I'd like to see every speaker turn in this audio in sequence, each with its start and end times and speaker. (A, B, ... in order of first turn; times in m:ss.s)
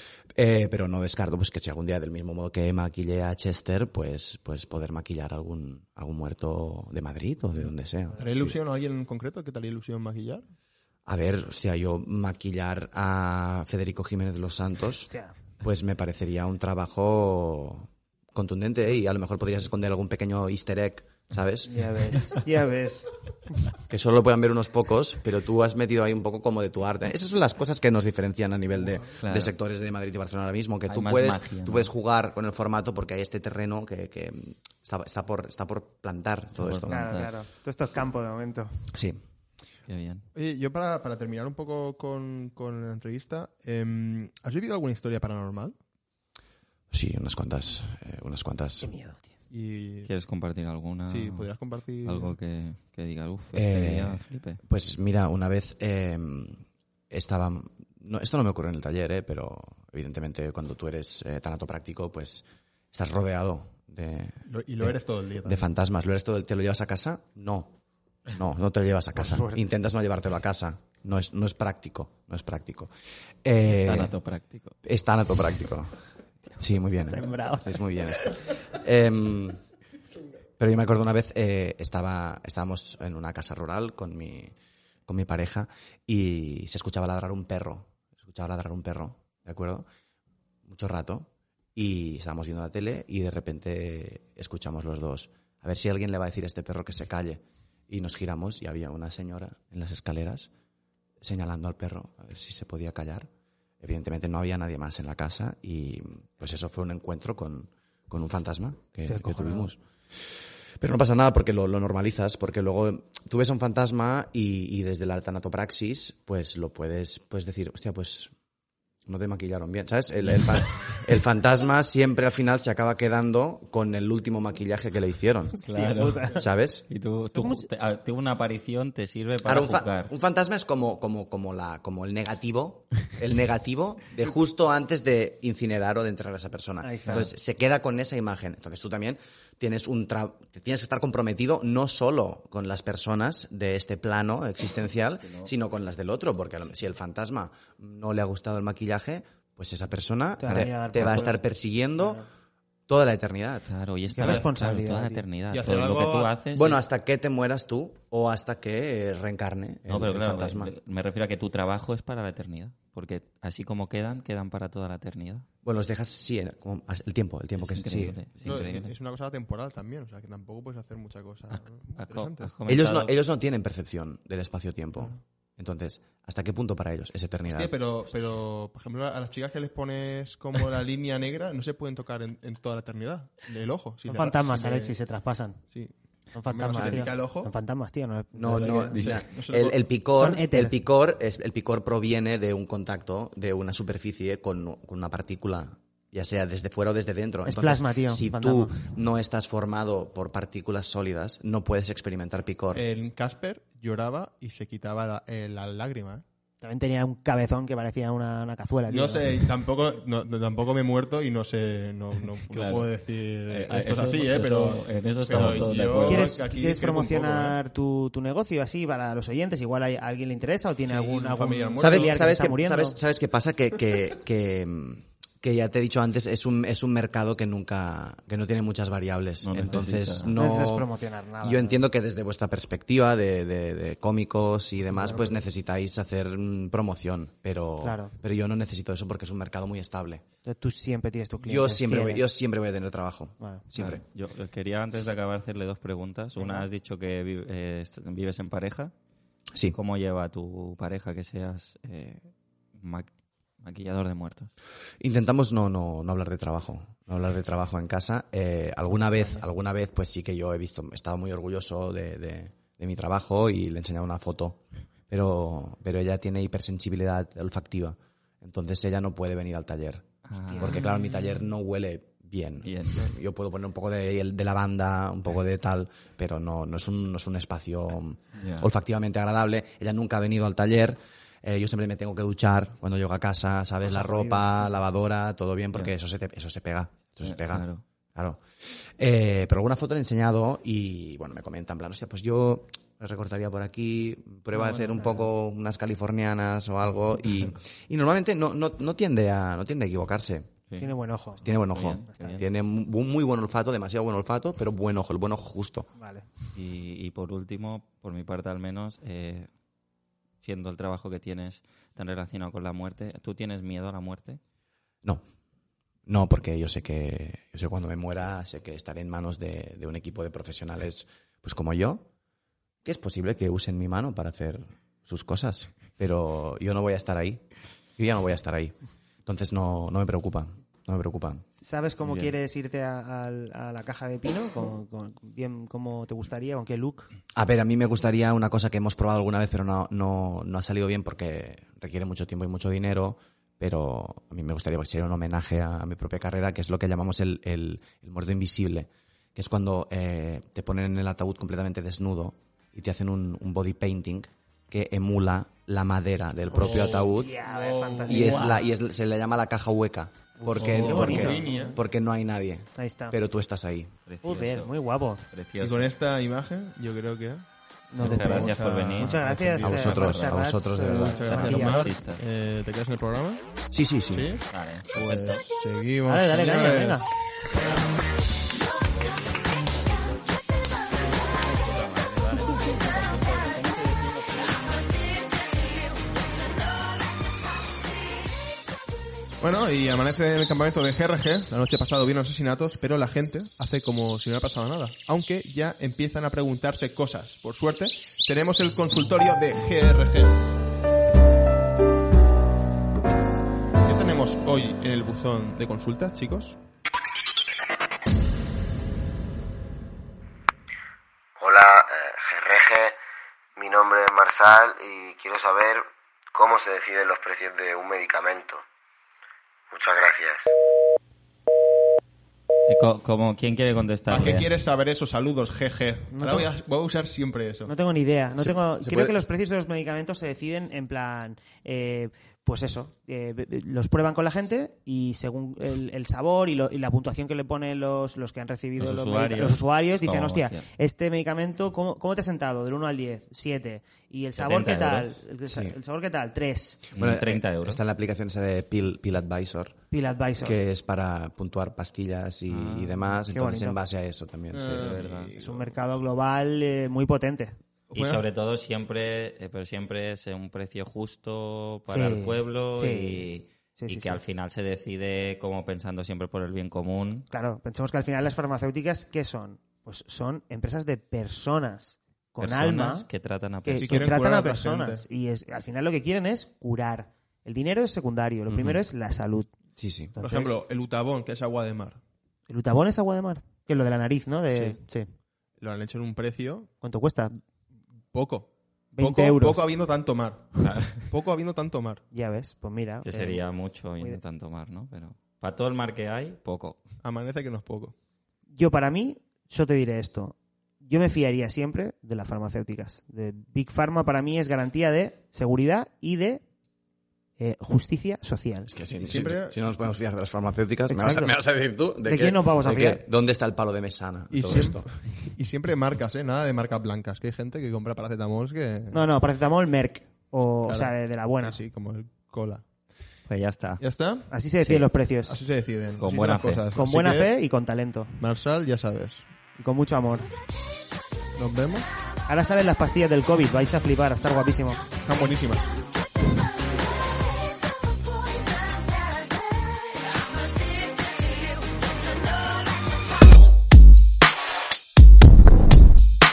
0:00.3-0:08.5 A
0:08.2-0:10.4 B
0:11.0-0:15.1 A
0:15.1-0:15.3 C
0:15.6-0:21.7 A
0:21.7-0:23.7 C
0:23.9-0:37.0 A
0:29.2-0:29.5 D
0:30.9-0:31.9 D
0:36.5-0:37.3 D
0:36.9-0:38.7 C
0:38.9-0:39.2 A
0:39.9-0:40.2 D
0:40.3-0:45.8 B
0:46.9-0:48.9 A
0:48.8-0:49.3 C
0:49.5-0:50.1 B
0:50.0-0:51.5 D
0:51.1-0:52.4 B
0:52.0-0:54.6 D
0:53.5-1:07.7 A
1:04.4-1:05.7 B
1:08.3-1:12.9 A
1:09.2-1:09.6 C
1:13.4-1:14.1 A
1:13.6-1:14.7 D
1:14.8-1:16.0 A
1:16.6-1:19.6 A
1:17.0-1:17.8 C
1:20.6-1:24.5 A
1:25.1-1:29.8 A
1:30.7-1:40.5 A
1:41.2-1:43.3 A
1:43.8-1:58.3 A
1:49.1-1:49.7 C
1:59.1-2:05.6 A
2:05.5-2:06.4 C
2:05.6-2:06.4 D
2:06.3-2:06.8 A
2:06.9-2:10.1 D
2:07.3-2:07.7 C
2:09.4-2:32.2 A
2:16.8-2:17.3 C
2:25.2-2:25.5 D
2:30.4-2:31.4 C
2:32.0-2:32.2 C
2:32.9-2:33.7 A
2:33.7-2:36.8 D
2:34.1-2:35.2 C
2:35.5-2:36.3 B
2:36.5-2:40.7 A
2:39.9-2:45.4 D
2:45.6-2:48.2 A
2:47.6-2:48.9 D
2:48.4-2:52.5 B
2:51.5-2:53.1 D
2:52.7-2:57.8 A
2:57.5-3:04.9 B
3:04.0-3:05.6 C
3:06.3-3:09.0 C
3:06.4-3:07.5 B
3:06.8-3:07.0 A
3:08.4-3:22.8 A
3:08.5-3:09.8 B
3:10.1-3:10.7 C
3:17.4-3:18.8 C
3:22.7-3:26.2 B
3:26.6-3:29.4 C
3:28.9-3:37.6 B
3:32.5-3:32.9 D
3:33.5-3:36.3 D
3:35.9-3:43.0 C
3:40.8-3:42.3 B
3:41.8-3:50.9 A
3:49.4-3:50.3 D
3:50.3-3:51.8 C
3:51.4-4:00.2 A
3:54.9-3:55.4 C
3:57.8-3:58.1 C
4:00.4-4:02.2 C
4:01.4-4:04.0 A
4:03.4-4:03.6 C
4:03.8-4:08.9 D
4:06.4-4:06.7 C
4:09.7-4:13.1 D
4:13.6-4:14.5 D
4:15.0-5:00.5 A
4:18.9-4:19.4 C
4:30.3-4:31.3 D
4:30.4-4:30.8 C
4:32.6-4:33.0 D
4:38.4-4:38.7 D
4:43.8-4:44.7 C
4:47.2-4:47.8 D
4:54.5-4:55.2 D
5:00.8-5:01.4 C
5:01.4-5:05.9 A
5:01.4-5:02.4 D
5:02.0-5:02.4 C
5:06.0-5:06.2 C
5:06.5-5:09.5 D
5:10.4-5:14.4 D
5:16.1-5:22.0 A
5:22.8-5:27.4 A
5:28.0-5:28.7 A
5:29.2-5:31.4 A
5:31.6-5:37.1 C
5:32.0-5:32.3 D
5:37.3-5:57.3 A
5:56.5-5:58.6 C
5:56.6-5:58.6 B
5:58.1-6:03.9 A
6:00.4-6:01.8 C
6:00.5-6:01.8 B
6:02.8-6:03.2 C
6:04.1-6:04.7 D
6:04.2-6:05.2 C
6:05.3-6:05.9 D
6:05.6-6:09.6 B
6:07.9-6:11.8 C
6:08.0-6:12.2 D
6:09.6-6:11.6 A
6:10.9-6:13.4 B
6:13.7-6:14.3 A
6:14.1-6:17.0 B
6:14.5-6:15.4 D
6:16.1-6:17.1 C
6:19.5-6:20.2 D
6:21.0-6:24.9 D
6:29.4-6:40.4 B
6:43.8-6:46.6 B
6:51.4-6:53.0 E
6:53.6-6:58.6 E
6:59.7-7:00.5 E
7:02.7-7:04.5 D
7:04.1-7:07.7 B
7:06.1-7:06.5 C
7:07.6-7:26.8 C
7:08.4-7:09.2 A
7:18.8-7:20.6 D
7:24.4-7:25.1 D
7:25.5-7:25.7 A
7:26.9-7:27.8 D
7:27.0-7:29.8 A
7:29.9-7:30.6 C
7:30.4-7:35.0 A
7:32.5-7:33.2 D
7:33.3-7:33.8 C
7:34.5-7:35.8 B
7:34.8-7:35.3 D
7:35.4-7:37.6 C
7:37.9-7:47.3 D
7:37.9-7:38.2 B
7:41.9-7:43.2 C
7:43.8-7:44.2 C
7:47.3-7:53.0 C
7:52.4-7:54.1 D
7:53.6-7:59.5 C
7:53.8-7:55.0 B
7:58.5-7:58.8 A
7:59.8-8:00.1 A
8:00.1-8:00.6 C
8:00.2-8:02.0 B
8:02.5-8:05.1 C
8:04.5-8:04.8 B
8:05.6-8:06.7 B
8:06.8-8:07.3 C
8:08.1-8:12.0 B
8:08.9-8:09.6 C
8:10.6-8:11.0 D
8:12.1-8:13.4 C
8:13.0-8:16.8 D
8:17.0-8:17.9 B
8:18.5-8:26.4 C
8:27.4-8:28.7 C
8:28.7-8:34.9 A
8:29.0-8:29.6 B
8:30.9-8:31.4 C
8:32.0-8:33.0 C
8:34.3-8:39.1 B
8:38.9-8:41.6 C
8:40.6-8:42.6 B
8:43.3-8:43.8 D
8:43.8-8:44.3 B
8:44.3-8:45.4 C
8:45.2-8:47.3 B
8:46.0-8:46.6 D
8:46.7-8:48.1 C
8:48.2-8:49.3 B
8:49.6-8:50.3 C
8:51.4-8:51.9 B
8:52.3-8:54.8 C
8:55.0-8:55.7 B